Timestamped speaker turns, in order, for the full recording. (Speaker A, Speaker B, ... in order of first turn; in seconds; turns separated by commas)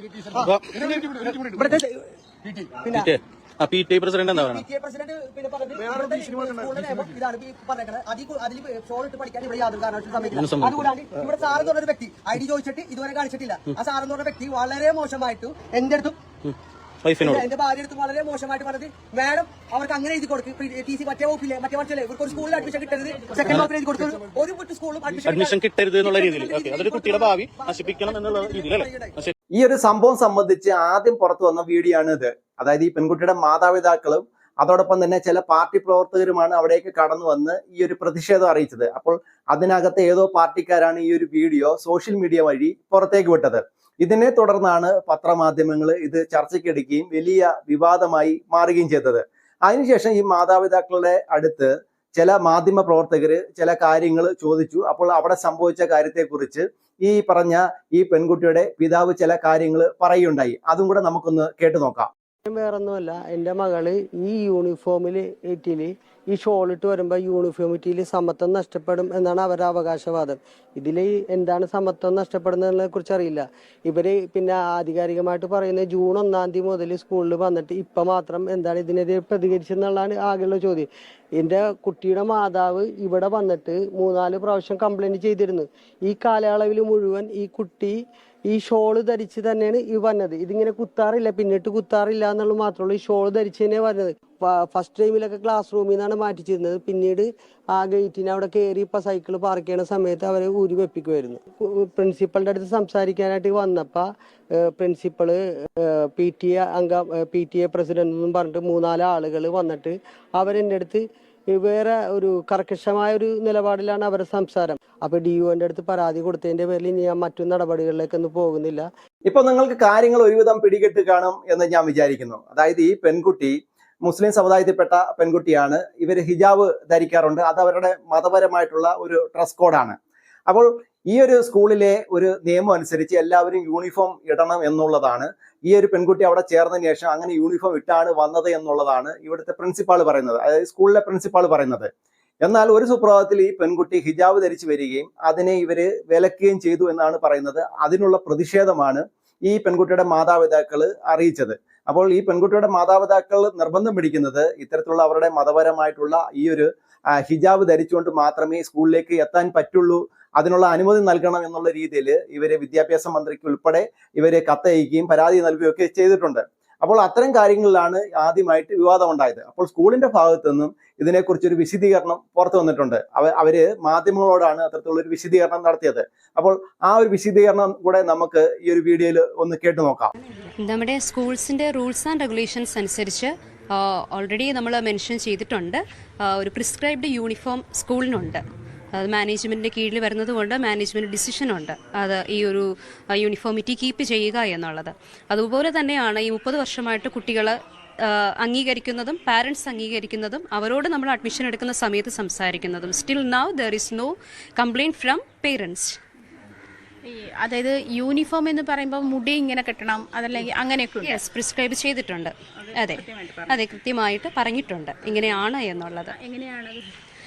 Speaker A: 0.3-3.1, Speaker B: 0.4-0.8, Speaker B: 2.9-4.7, Speaker A: 4.3-16.2, Speaker B: 10.3-10.9, Speaker B: 16.4-17.4, Speaker A: 17.2-29.1, Speaker B: 25.2-29.3, Speaker C: 29.5-62.1, Speaker D: 62.5-88.0, Speaker D: 88.5-118.9, Speaker C: 119.3-130.0, Speaker C: 130.5-141.9, Speaker C: 142.4-180.1, Speaker E: 180.5-188.4, Speaker E: 188.9-206.0, Speaker F: 207.1-211.2, Speaker E: 211.0-216.1, Speaker F: 212.6-213.6, Speaker F: 216.1-216.8